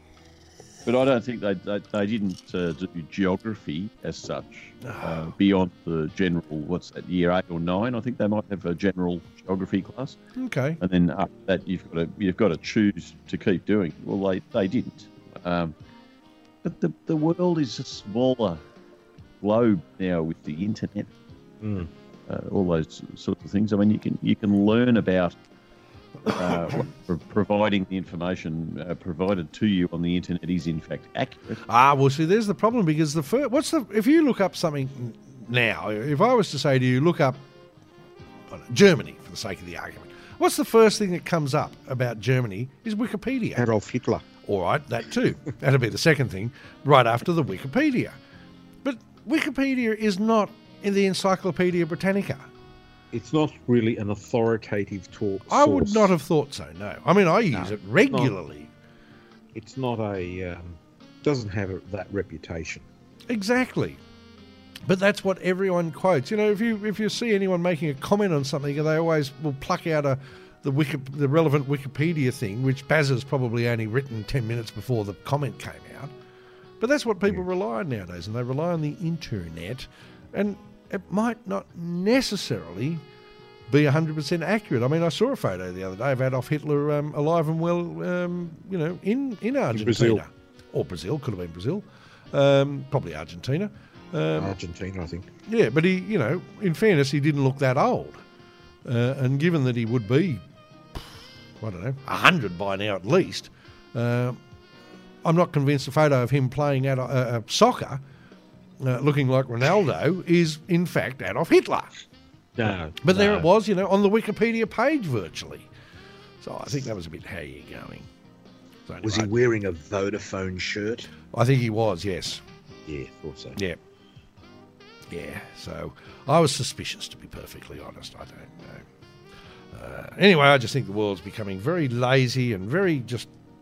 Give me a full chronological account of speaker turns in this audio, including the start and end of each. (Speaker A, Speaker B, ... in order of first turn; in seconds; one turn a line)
Speaker A: 0.9-10.2
Speaker B: 4.8-5.3
Speaker B: 10.4-10.8
Speaker A: 10.8-15.8
Speaker A: 16.6-18.6
Speaker A: 19.4-21.1
Speaker C: 21.6-21.9
Speaker A: 22.3-25.4
Speaker A: 26.2-31.6
Speaker B: 31.7-37.4
Speaker B: 38.5-43.6
Speaker C: 43.6-44.3
Speaker B: 44.5-48.2
Speaker B: 48.8-52.5
Speaker C: 53.1-56.1
Speaker B: 55.5-58.7
Speaker C: 57.5-58.4
Speaker C: 59.5-62.9
Speaker B: 63.3-64.0
Speaker B: 64.9-76.1
Speaker B: 76.8-83.0
Speaker B: 83.7-94.6
Speaker C: 89.7-90.2
Speaker C: 94.4-95.3
Speaker B: 95.5-98.2
Speaker B: 98.8-100.4
Speaker B: 101.6-104.4
Speaker B: 105.2-108.0
Speaker B: 108.8-111.9
Speaker C: 112.6-113.5
Speaker B: 112.7-115.7
Speaker B: 116.4-118.1
Speaker B: 118.9-119.3
Speaker C: 119.0-121.1
Speaker B: 121.3-122.4
Speaker C: 122.9-123.6
Speaker B: 125.1-128.8
Speaker B: 129.7-133.3